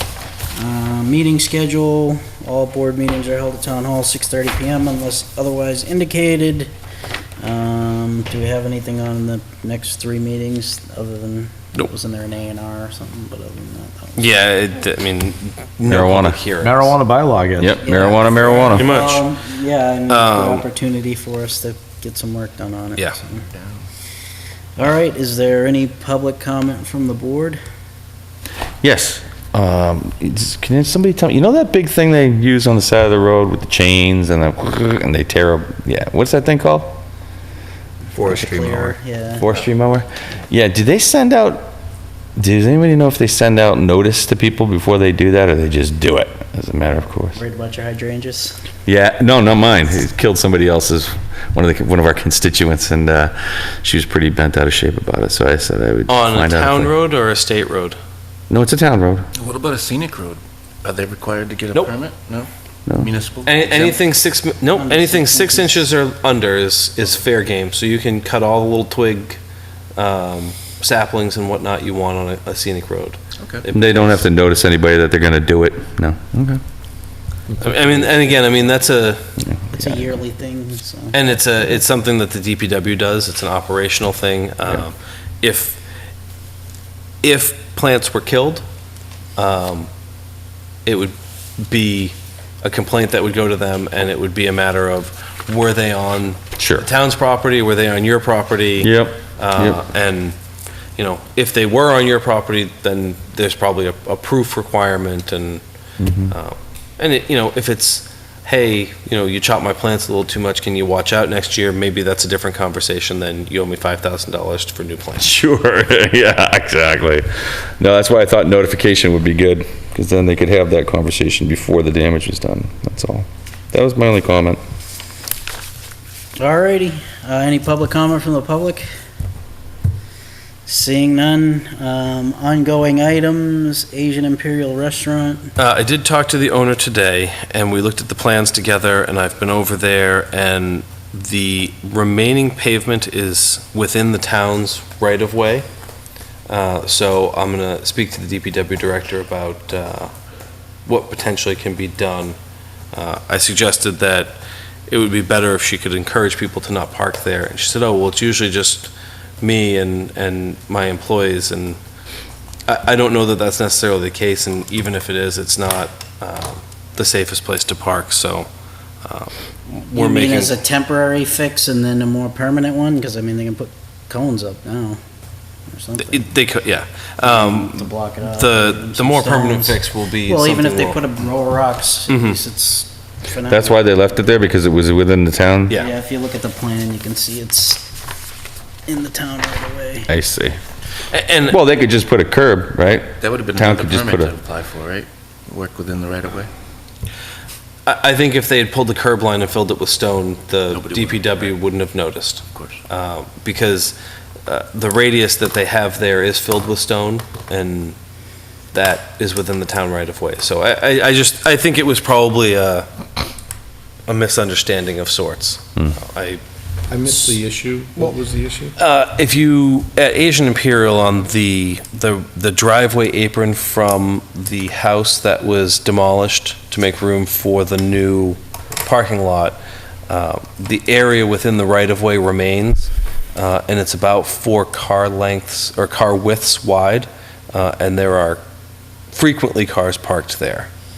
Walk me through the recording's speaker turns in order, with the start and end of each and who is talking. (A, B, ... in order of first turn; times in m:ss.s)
0:00.5-0:06.7 A
0:07.4-0:14.3 A
0:14.2-0:17.0 B
0:15.8-0:16.4 C
0:16.6-0:17.8 D
0:17.6-0:18.9 C
0:17.8-0:23.5 A
0:18.6-0:19.2 B
0:20.1-0:20.6 B
0:24.8-0:27.6 A
0:28.8-0:37.0 C
0:38.1-0:39.4 A
0:38.2-0:41.7 C
0:42.4-0:47.4 C
0:47.4-0:48.6 A
0:48.8-0:56.9 C
0:56.1-0:58.0 B
0:58.5-0:59.2 C
0:59.3-1:04.0 E
1:03.4-1:09.4 B
1:04.7-1:05.9 A
1:09.9-1:14.2 B
1:13.7-1:16.6 C
1:17.6-1:19.2 B
1:19.4-1:20.1 C
1:19.7-1:21.2 A
1:21.1-1:25.8 B
1:27.2-1:28.6 B
1:29.4-1:29.9 B
1:30.8-1:40.3 B
1:36.6-1:36.8 C
1:38.8-1:39.8 C
1:41.0-1:45.6 B
1:46.0-1:46.3 C
1:46.3-1:55.3 B
1:55.2-1:57.2 C
1:57.8-2:04.6 C
2:06.4-2:08.9 A
2:10.6-2:15.5 A
2:15.6-2:25.6 B
2:26.5-2:30.1 B
2:30.8-2:32.4 B
2:32.9-2:41.8 B
2:42.7-2:48.5 B
2:49.0-2:49.3 B
2:49.8-2:55.0 A
2:49.9-2:50.5 B
2:55.7-2:56.3 A
2:56.0-3:01.0 B
2:57.2-3:04.0 A
3:02.1-3:02.4 B
3:03.5-3:05.8 C
3:05.7-3:07.9 A
3:08.8-3:10.1 A
3:10.1-3:10.6 C
3:11.1-3:11.6 B
3:11.5-3:14.3 C
3:13.2-3:16.5 E
3:17.8-3:28.0 B
3:20.7-3:21.5 E
3:22.5-3:22.8 E
3:28.7-3:32.9 B
3:34.1-3:36.4 B
3:36.9-3:38.7 D
3:38.8-3:49.6 B
3:50.1-3:58.4 B
3:59.1-4:00.7 B